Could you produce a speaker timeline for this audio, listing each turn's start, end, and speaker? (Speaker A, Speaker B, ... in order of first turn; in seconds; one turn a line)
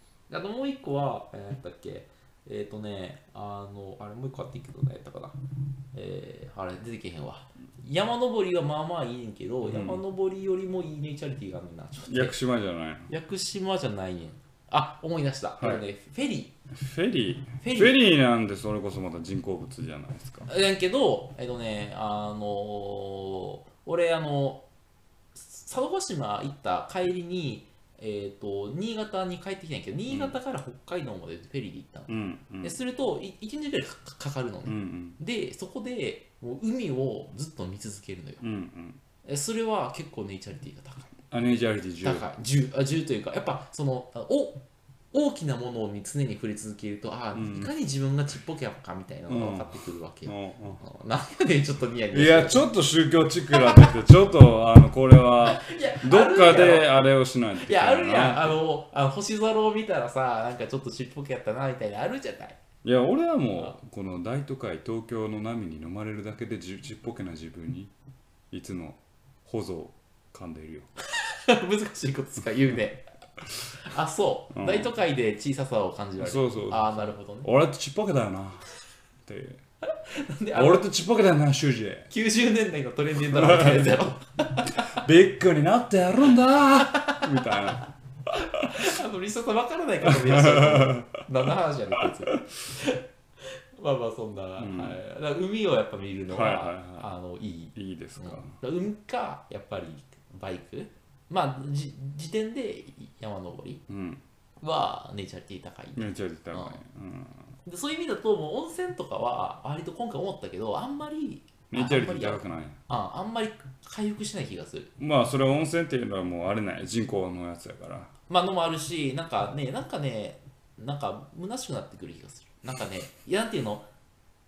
Speaker A: 0.3-5.4
Speaker A: 5.9-12.3
Speaker B: 9.6-10.0
Speaker B: 12.1-13.1
Speaker A: 13.1-16.5
Speaker B: 16.8-20.5
Speaker A: 17.6-18.0
Speaker A: 20.5-24.6
Speaker A: 25.3-38.4
Speaker B: 32.1-32.7
Speaker B: 34.6-35.2
Speaker B: 38.4-39.0
Speaker A: 39.2-41.1
Speaker B: 41.3-42.3
Speaker A: 42.0-52.7
Speaker B: 47.4-47.7
Speaker B: 49.3-49.7
Speaker B: 50.2-50.8
Speaker B: 52.1-58.6
Speaker A: 53.5-53.9
Speaker A: 55.4-56.9
Speaker A: 57.6-62.6
Speaker B: 62.8-67.9
Speaker B: 68.5-70.9
Speaker A: 71.1-73.0
Speaker A: 73.8-77.5
Speaker B: 74.5-74.9
Speaker B: 76.2-78.7
Speaker B: 79.2-79.6
Speaker A: 80.0-80.9
Speaker B: 80.5-82.1
Speaker A: 82.1-85.0
Speaker B: 83.2-84.0
Speaker B: 84.8-88.9
Speaker A: 86.7-87.8
Speaker A: 88.3-103.8
Speaker B: 90.0-91.1
Speaker B: 94.6-95.0
Speaker B: 96.3-97.1
Speaker B: 97.7-98.5
Speaker B: 103.9-104.2
Speaker A: 104.6-106.8
Speaker B: 106.0-107.5
Speaker A: 107.6-114.9
Speaker B: 111.7-112.8
Speaker B: 115.0-118.1
Speaker A: 118.3-123.9